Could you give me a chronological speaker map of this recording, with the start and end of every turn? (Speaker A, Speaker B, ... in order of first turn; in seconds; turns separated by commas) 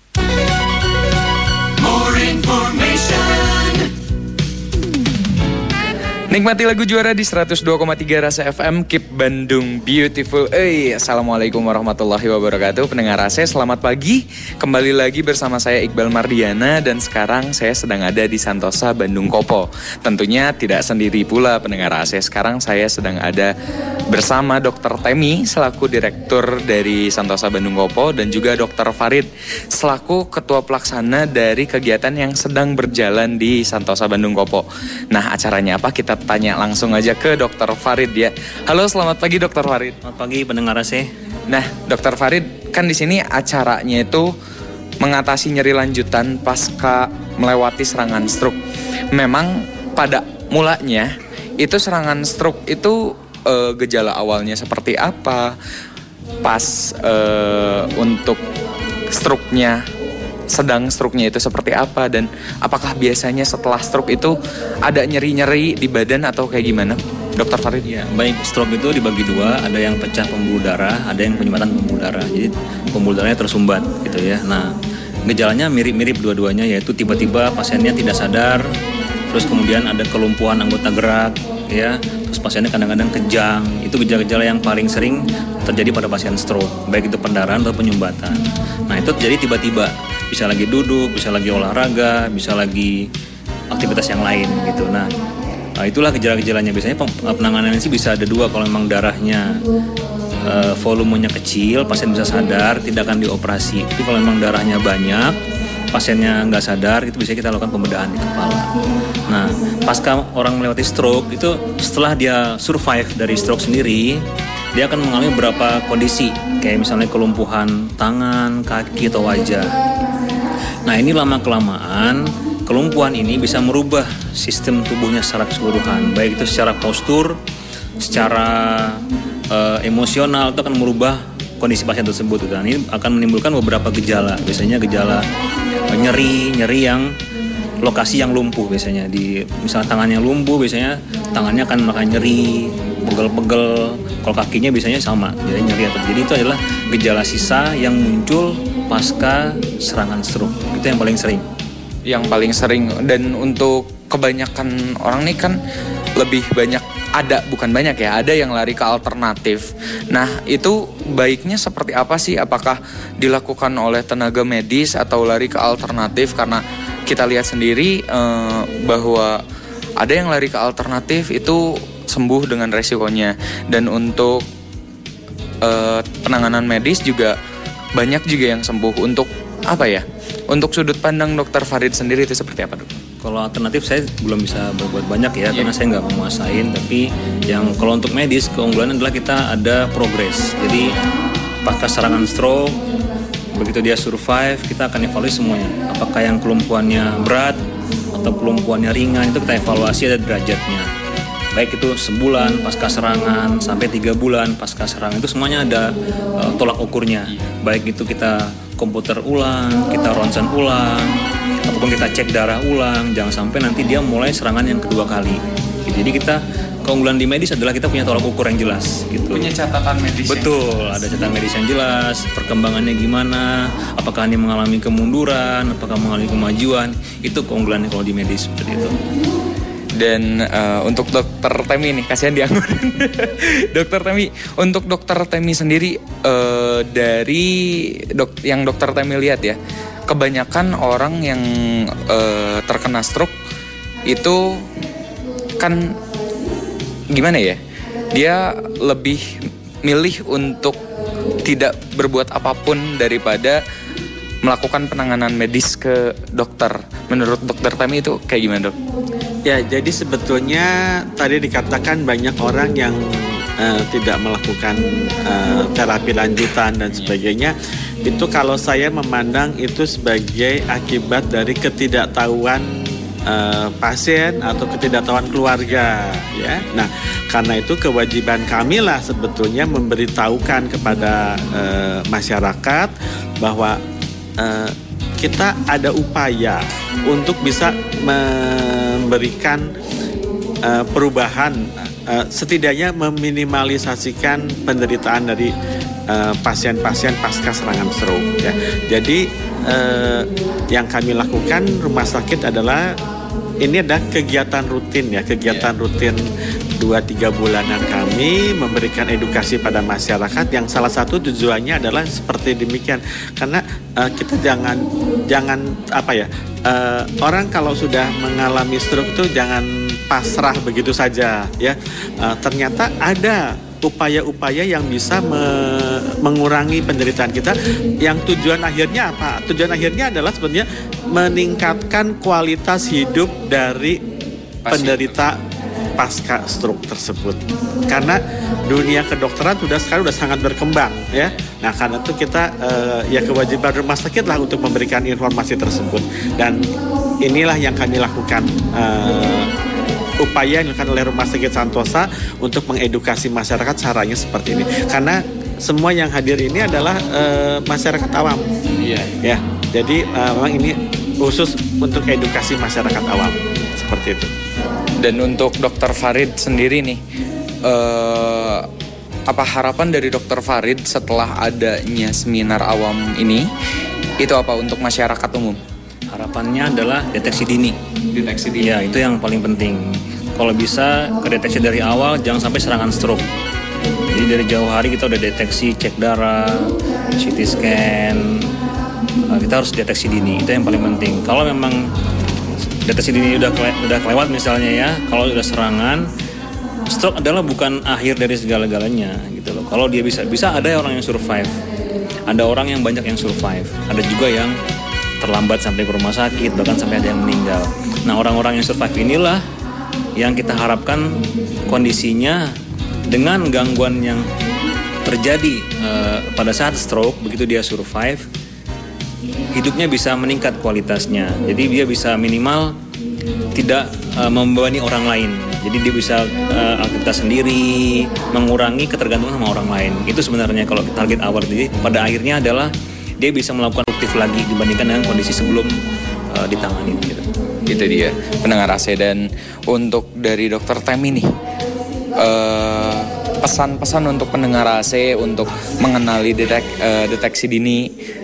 Speaker A: 1.9-3.8, Speaker A: 6.3-23.5, Speaker A: 24.1-40.0, Speaker B: 40.0-41.1, Speaker A: 41.5-44.3, Speaker A: 45.0-48.6, Speaker A: 49.1-55.6, Speaker A: 56.4-58.4, Speaker A: 59.1-59.8, Speaker A: 60.5-67.8, Speaker B: 67.8-74.7, Speaker B: 75.3-78.7, Speaker B: 79.3-93.1, Speaker B: 93.7-95.1, Speaker B: 95.8-99.6, Speaker B: 100.4-105.4, Speaker B: 105.9-108.7, Speaker B: 109.3-119.8, Speaker B: 120.9-127.4, Speaker B: 128.0-135.3, Speaker B: 135.9-137.2, Speaker B: 137.8-151.4, Speaker A: 152.1-155.6, Speaker A: 156.2-169.4, Speaker A: 170.0-174.4, Speaker A: 175.6-177.3, Speaker A: 178.0-183.0, Speaker B: 183.2-191.0, Speaker B: 191.6-192.8, Speaker B: 193.5-197.6, Speaker B: 198.2-200.9, Speaker B: 201.5-219.5, Speaker A: 219.3-221.0, Speaker B: 220.2-229.0, Speaker A: 230.0-243.3, Speaker A: 244.1-244.7, Speaker A: 245.6-245.9, Speaker A: 247.1-247.6, Speaker A: 248.1-250.8, Speaker A: 251.4-253.6, Speaker A: 254.4-258.8, Speaker C: 259.4-272.6, Speaker A: 266.9-267.2, Speaker C: 273.3-283.8, Speaker A: 275.6-276.6, Speaker C: 284.4-289.7, Speaker C: 290.6-295.5, Speaker C: 296.1-302.9, Speaker C: 303.6-306.2, Speaker A: 305.4-305.7, Speaker C: 306.8-334.0, Speaker A: 334.6-335.3, Speaker C: 334.7-335.4, Speaker C: 336.0-346.6, Speaker C: 347.2-349.5, Speaker C: 350.2-358.5, Speaker A: 358.8-359.1, Speaker C: 359.2-364.3, Speaker A: 365.0-367.0, Speaker A: 367.6-368.7, Speaker A: 369.3-373.5, Speaker A: 374.2-375.6, Speaker B: 376.1-377.8, Speaker A: 378.1-379.0, Speaker B: 378.6-383.3, Speaker B: 384.1-388.5, Speaker B: 389.3-391.9, Speaker B: 392.8-396.1, Speaker B: 396.9-401.6, Speaker B: 402.3-404.6, Speaker B: 405.2-409.4, Speaker B: 410.1-412.5, Speaker B: 413.1-414.3, Speaker B: 415.0-418.3, Speaker B: 419.5-422.8, Speaker B: 423.5-437.3, Speaker A: 437.7-441.2, Speaker A: 442.2-447.9